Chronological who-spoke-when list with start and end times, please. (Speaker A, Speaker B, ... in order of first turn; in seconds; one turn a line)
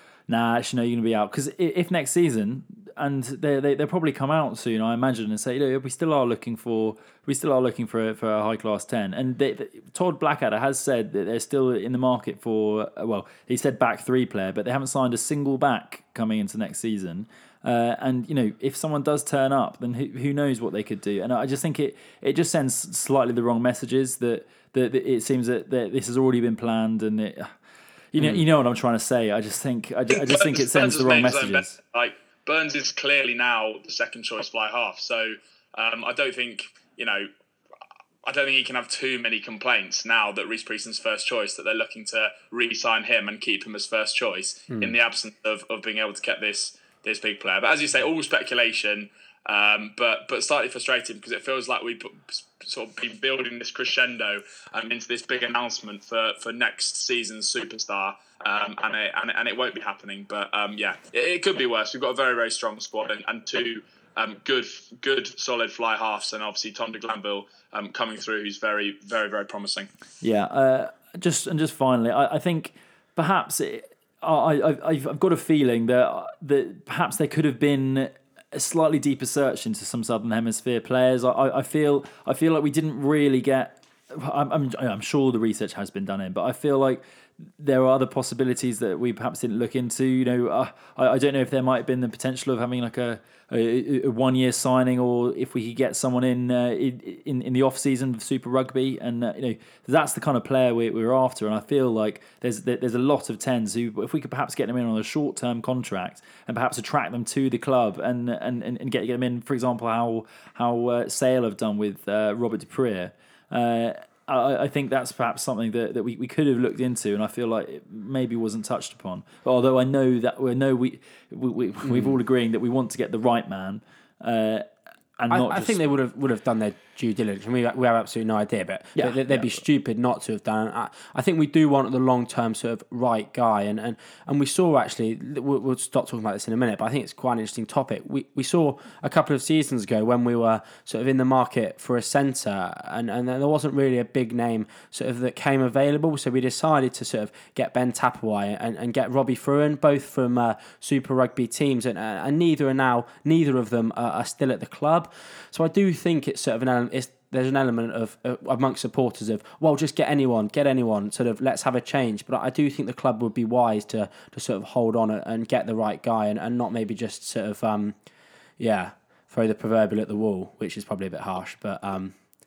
Speaker A: 0.3-27.5
Speaker A: 28.1-31.8
Speaker B: 30.1-37.3
Speaker B: 38.2-69.9
Speaker A: 70.2-87.0
Speaker A: 87.6-124.7
Speaker C: 121.8-122.2
Speaker A: 125.2-125.8
Speaker C: 125.3-168.0
Speaker A: 129.0-129.4
Speaker C: 168.6-172.2